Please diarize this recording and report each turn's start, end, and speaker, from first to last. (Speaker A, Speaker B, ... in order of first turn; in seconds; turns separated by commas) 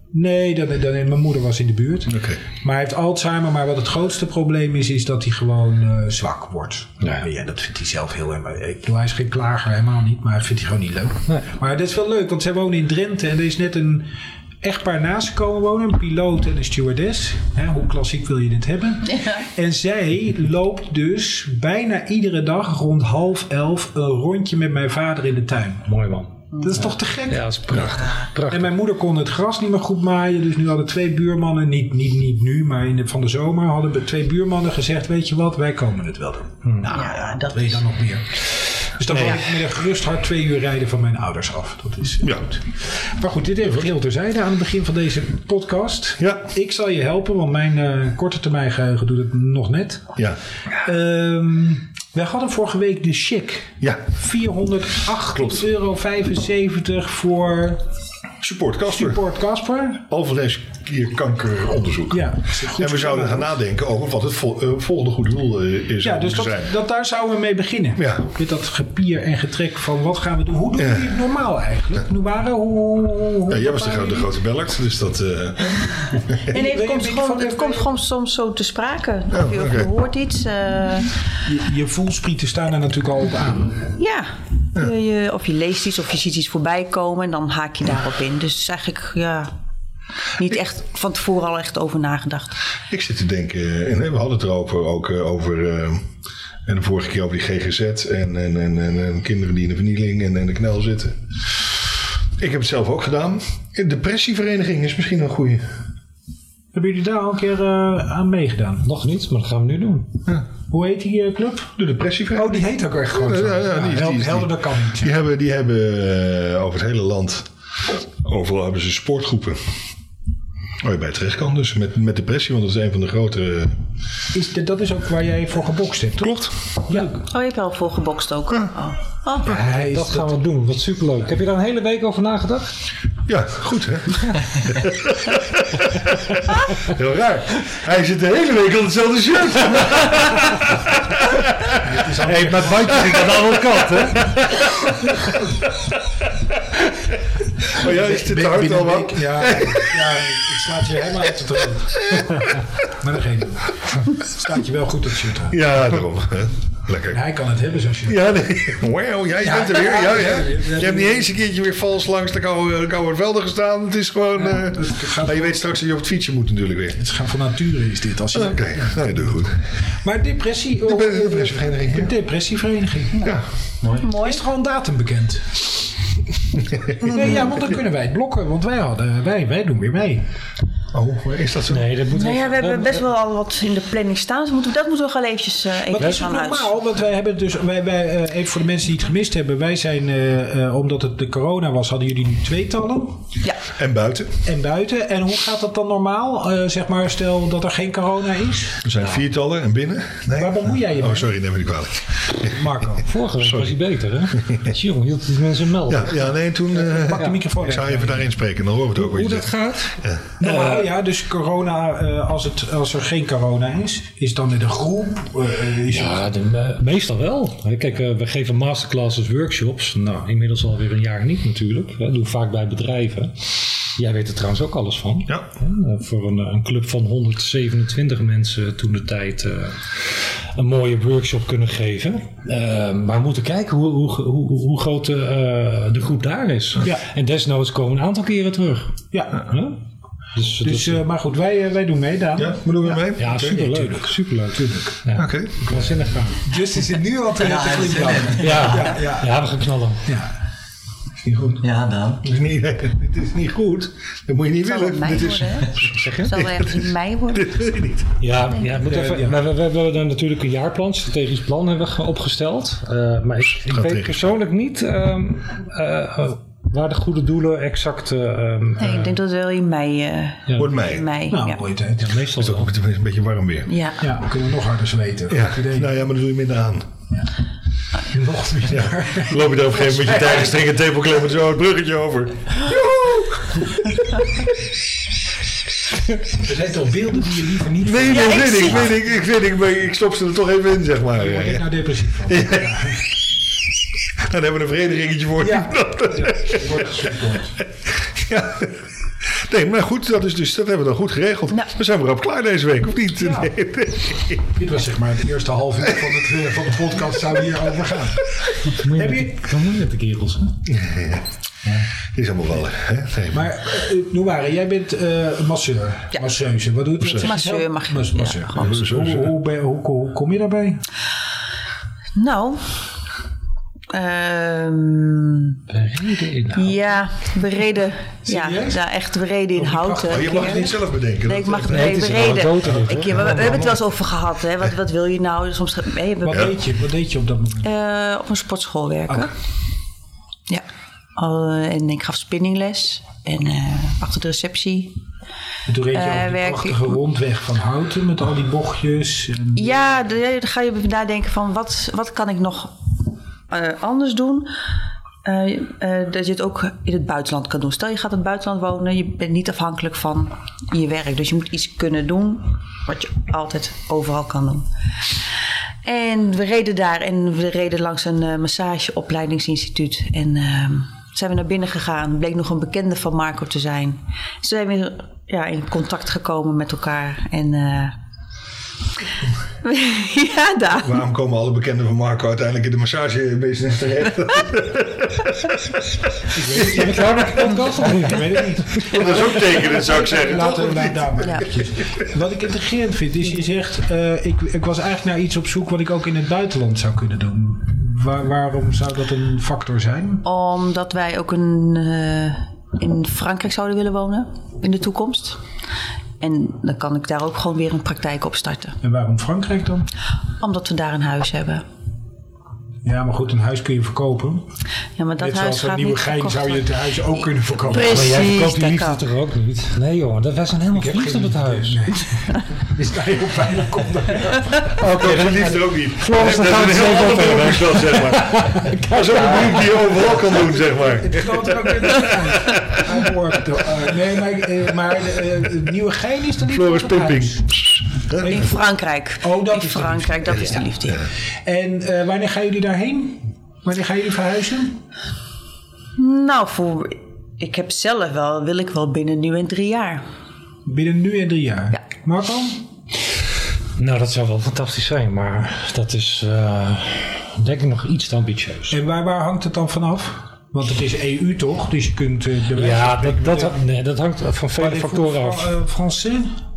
Speaker A: 0.1-14.1, Speaker B: 2.1-2.4, Speaker A: 14.6-25.9, Speaker C: 25.9-28.7, Speaker A: 26.6-27.4, Speaker A: 28.5-50.1, Speaker D: 36.9-37.8, Speaker C: 39.1-39.4, Speaker B: 42.2-42.5, Speaker B: 46.2-46.5, Speaker A: 50.8-57.8, Speaker B: 55.3-55.6, Speaker B: 58.4-59.2, Speaker A: 58.9-60.0, Speaker B: 60.1-66.7, Speaker A: 62.1-63.5, Speaker A: 66.0-74.3, Speaker B: 68.0-68.3, Speaker B: 73.5-76.0, Speaker A: 76.5-78.0, Speaker D: 76.5-81.1, Speaker B: 79.3-79.9, Speaker A: 81.4-83.9, Speaker D: 84.0-89.5, Speaker D: 90.4-92.5, Speaker B: 92.9-96.0, Speaker B: 96.6-101.7, Speaker B: 102.4-105.7, Speaker A: 106.7-108.8, Speaker C: 108.8-110.1, Speaker A: 110.7-111.7, Speaker B: 111.8-117.5, Speaker A: 112.3-115.2, Speaker B: 118.2-119.6, Speaker B: 120.8-123.8, Speaker A: 124.3-126.3, Speaker B: 126.2-126.5, Speaker A: 126.9-127.2, Speaker D: 127.2-129.5, Speaker C: 129.4-132.7, Speaker A: 129.4-130.3, Speaker B: 133.3-141.8, Speaker A: 141.8-143.2, Speaker C: 142.2-145.3, Speaker B: 143.0-143.4, Speaker B: 147.7-150.0, Speaker A: 147.8-155.6, Speaker B: 151.9-152.6, Speaker B: 155.5-157.2, Speaker A: 157.1-158.3, Speaker B: 158.1-167.0, Speaker A: 159.4-161.3, Speaker A: 164.4-165.7, Speaker A: 166.9-169.3, Speaker B: 168.3-169.6, Speaker A: 170.0-173.3, Speaker B: 170.8-172.1, Speaker B: 173.2-173.5, Speaker A: 173.9-175.7, Speaker D: 173.9-174.4, Speaker A: 177.0-180.2, Speaker B: 180.9-181.9, Speaker C: 181.7-183.0, Speaker D: 182.1-186.7, Speaker A: 185.9-193.3, Speaker B: 193.7-194.4, Speaker A: 194.4-198.8, Speaker B: 198.8-202.5, Speaker A: 200.3-201.3, Speaker A: 202.4-203.1, Speaker C: 203.0-206.3, Speaker B: 203.4-203.8, Speaker B: 205.9-210.2, Speaker A: 206.7-208.3, Speaker C: 208.9-210.9, Speaker A: 210.4-216.3, Speaker C: 215.9-239.8, Speaker A: 239.1-239.5, Speaker C: 240.3-241.0, Speaker A: 240.6-243.0, Speaker B: 242.4-243.6, Speaker C: 243.2-246.4, Speaker A: 243.5-245.0, Speaker B: 245.2-245.7, Speaker A: 246.4-249.3, Speaker E: 247.4-248.9, Speaker C: 248.4-250.1, Speaker A: 250.1-250.3, Speaker B: 251.2-251.6, Speaker E: 251.6-252.2, Speaker B: 252.2-258.2, Speaker D: 254.6-257.6, Speaker C: 255.8-256.3, Speaker C: 258.2-269.2, Speaker A: 258.7-259.4, Speaker B: 263.6-264.3, Speaker D: 268.8-271.6, Speaker B: 270.6-271.1, Speaker A: 271.3-272.1, Speaker C: 272.0-272.7, Speaker B: 272.3-273.7, Speaker D: 273.7-274.0, Speaker A: 274.0-275.9, Speaker B: 275.3-276.9, Speaker A: 278.1-280.5, Speaker B: 278.7-284.5, Speaker A: 286.4-288.5, Speaker B: 287.8-291.7, Speaker D: 288.1-289.0, Speaker A: 291.1-293.0, Speaker B: 292.3-292.9, Speaker B: 294.2-296.8, Speaker A: 295.4-297.6, Speaker B: 297.6-304.4, Speaker A: 303.2-303.5, Speaker A: 304.5-309.4, Speaker C: 308.7-310.6, Speaker B: 310.6-311.3, Speaker B: 312.1-313.6, Speaker A: 313.3-320.8, Speaker B: 317.0-317.3, Speaker D: 317.2-318.8, Speaker B: 318.6-319.3, Speaker D: 322.1-322.6, Speaker D: 323.9-325.6, Speaker C: 325.7-326.8, Speaker D: 326.5-336.5, Speaker A: 328.2-328.8, Speaker A: 329.6-330.8, Speaker B: 330.0-333.8, Speaker C: 331.7-333.3, Speaker A: 336.2-337.7, Speaker D: 337.6-339.3, Speaker D: 341.1-344.9, Speaker A: 345.6-349.9, Speaker D: 345.9-347.0, Speaker D: 349.6-352.7, Speaker D: 353.5-354.5, Speaker D: 355.2-364.6, Speaker D: 365.8-377.9, Speaker D: 379.6-381.0, Speaker B: 380.7-385.6, Speaker A: 386.3-400.2, Speaker C: 386.6-388.9, Speaker B: 388.7-391.6, Speaker D: 391.2-391.5, Speaker D: 400.2-405.4, Speaker D: 406.2-408.8, Speaker A: 408.8-409.9, Speaker D: 410.4-411.6, Speaker A: 412.8-414.4, Speaker D: 415.0-416.7, Speaker A: 415.2-418.2, Speaker D: 417.7-419.0, Speaker C: 417.7-421.9, Speaker A: 420.7-424.7, Speaker B: 424.8-432.8, Speaker C: 424.8-429.9, Speaker A: 430.7-437.5, Speaker B: 436.4-438.4, Speaker A: 438.1-438.6, Speaker D: 438.2-441.1, Speaker A: 439.2-440.6, Speaker A: 441.4-444.8, Speaker D: 445.9-450.0, Speaker A: 450.6-452.6, Speaker C: 453.8-458.8, Speaker A: 458.7-463.6, Speaker C: 462.5-465.5, Speaker A: 464.6-466.3